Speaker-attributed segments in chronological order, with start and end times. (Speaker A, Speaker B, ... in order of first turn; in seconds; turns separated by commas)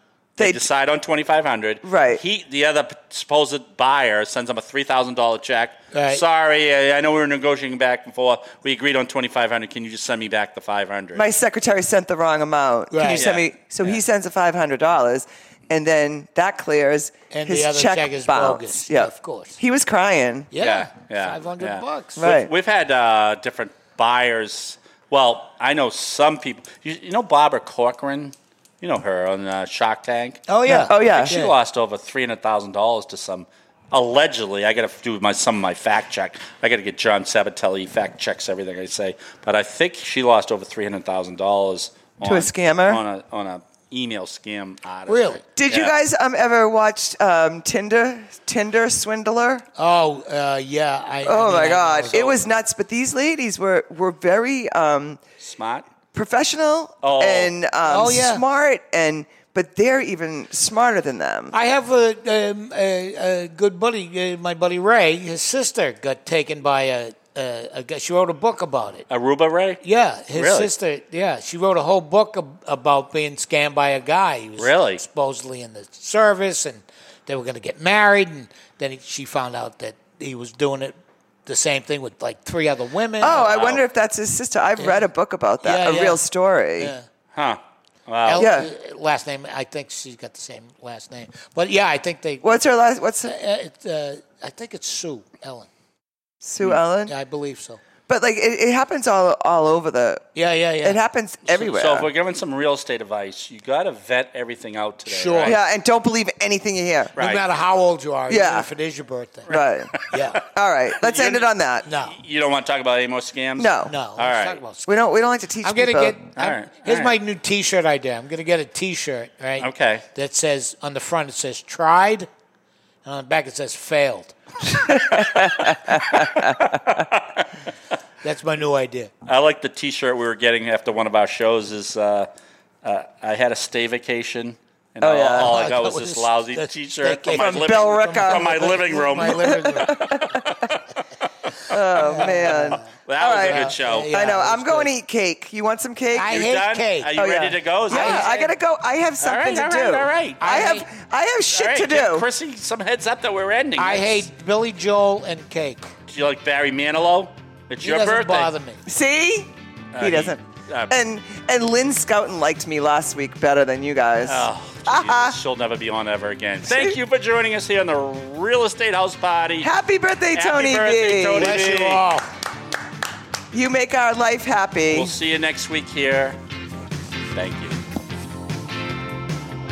Speaker A: 0.4-11.2, Speaker B: 1.8-2.2, Speaker C: 5.9-6.2, Speaker B: 11.1-20.5, Speaker C: 12.9-13.3, Speaker A: 13.1-14.0, Speaker C: 17.3-19.6, Speaker C: 20.5-22.2, Speaker A: 20.6-45.9, Speaker B: 22.2-22.5, Speaker C: 30.5-31.5, Speaker B: 30.7-31.4, Speaker B: 42.2-43.0, Speaker C: 45.1-45.4, Speaker B: 45.6-49.6, Speaker C: 49.8-52.3, Speaker B: 51.2-55.2, Speaker A: 55.4-55.9, Speaker B: 56.1-61.5, Speaker A: 57.0-57.5, Speaker C: 57.9-58.4, Speaker C: 61.5-69.1, Speaker A: 69.1-69.8, Speaker C: 69.8-83.4, Speaker A: 70.3-70.7, Speaker A: 74.6-75.0, Speaker B: 83.2-86.9, Speaker A: 83.2-83.8, Speaker C: 84.8-85.0, Speaker C: 85.6-86.2, Speaker C: 86.8-87.0, Speaker A: 87.3-88.5, Speaker C: 88.2-92.5, Speaker B: 88.4-88.7, Speaker B: 92.4-93.3, Speaker C: 93.2-95.7, Speaker B: 96.4-97.1, Speaker C: 97.0-97.8, Speaker B: 98.1-100.2, Speaker C: 100.3-101.0, Speaker B: 100.8-102.1, Speaker A: 101.5-105.6, Speaker C: 105.1-105.6, Speaker B: 105.4-107.2, Speaker A: 107.2-107.4, Speaker C: 107.2-110.4, Speaker B: 108.3-108.7, Speaker A: 109.5-110.4, Speaker B: 109.5-109.9, Speaker B: 110.4-111.8, Speaker A: 111.0-111.5, Speaker C: 111.8-112.2, Speaker A: 112.0-114.6, Speaker B: 113.6-113.9, Speaker C: 113.8-114.9, Speaker B: 114.8-116.2, Speaker C: 115.6-122.3, Speaker A: 116.3-117.2, Speaker A: 119.6-120.0, Speaker C: 123.0-124.3, Speaker B: 124.7-126.6, Speaker A: 126.7-127.5, Speaker C: 128.2-129.1, Speaker A: 129.2-132.3, Speaker A: 132.8-140.8, Speaker B: 135.0-135.6, Speaker C: 135.3-140.0, Speaker B: 137.3-140.5, Speaker B: 141.7-146.4, Speaker C: 141.9-144.9, Speaker A: 142.1-144.1, Speaker C: 146.1-147.1, Speaker A: 146.3-148.5, Speaker B: 147.1-152.3, Speaker C: 147.9-148.3, Speaker A: 149.2-150.4, Speaker C: 150.4-150.8, Speaker A: 151.5-154.3, Speaker C: 153.8-155.9, Speaker A: 156.1-158.5, Speaker C: 157.8-158.8, Speaker B: 158.8-165.4, Speaker A: 159.9-160.9, Speaker A: 164.2-169.7, Speaker B: 166.7-167.0, Speaker B: 169.6-171.6, Speaker A: 170.3-172.0, Speaker C: 171.4-172.3, Speaker B: 173.5-175.2, Speaker A: 174.9-176.4, Speaker A: 177.3-177.8